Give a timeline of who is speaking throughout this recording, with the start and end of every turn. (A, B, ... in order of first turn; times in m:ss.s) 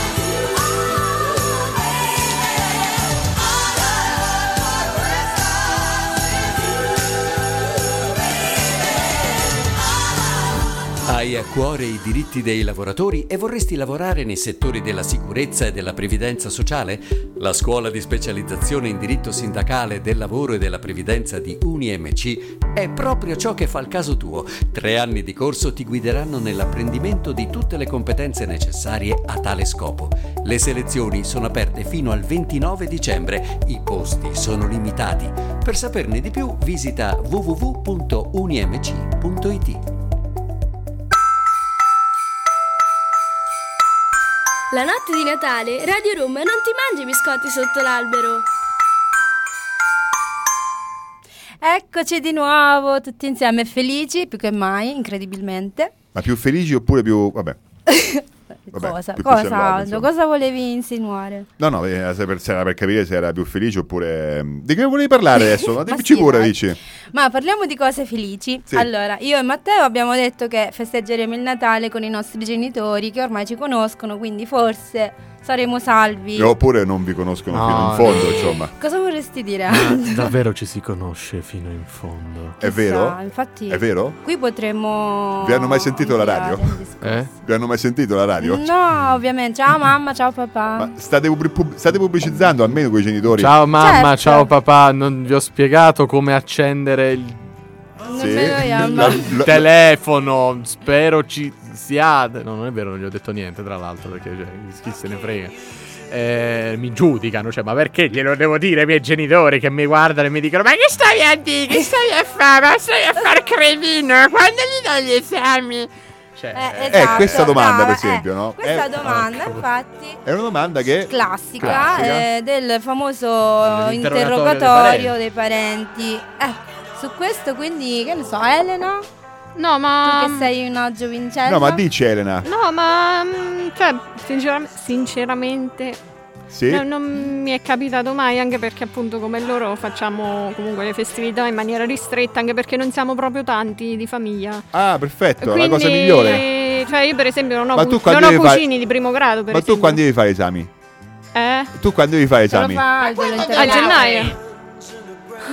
0:11.0-0:39.8 A
0:44.7-0:48.4 B
0:51.6-0:55.9 C
0:56.1-0:57.6 D
0:57.9-1:01.5 C
0:58.7-1:00.1 D
1:01.6-1:06.8 D
1:05.4-1:06.6 C
1:07.1-1:16.6 C
1:16.3-1:18.7 D
1:17.5-1:18.5 E
1:18.7-1:20.3 C
1:19.7-1:22.6 E
1:22.6-1:24.2 D
1:22.6-1:27.3 C
1:25.4-1:26.8 D
1:27.0-1:27.3 E
1:27.4-1:28.7 D
1:28.4-1:30.9 C
1:30.8-1:33.6 D
1:33.3-1:37.4 E
1:33.7-1:34.5 C
1:38.1-1:39.3 C
1:38.2-1:39.7 D
1:39.3-1:45.6 E
1:46.1-1:57.5 E
1:56.5-2:00.2 C
1:56.9-1:59.2 D
1:59.1-1:59.6 E
2:00.2-2:02.3 D
2:01.1-2:09.0 C
2:01.6-2:01.9 E
2:03.6-2:05.2 E
2:09.6-2:10.5 F
2:10.0-2:11.8 C
2:11.4-2:12.5 D
2:12.4-2:16.0 F
2:16.5-2:16.8 D
2:16.7-2:24.7 F
2:24.7-2:26.4 D
2:25.4-2:30.0 F
2:27.7-2:28.6 D
2:29.5-2:30.7 D
2:31.3-2:31.7 F
2:31.7-2:32.8 D
2:32.5-2:34.2 C
2:33.0-2:34.4 E
2:33.6-2:34.4 F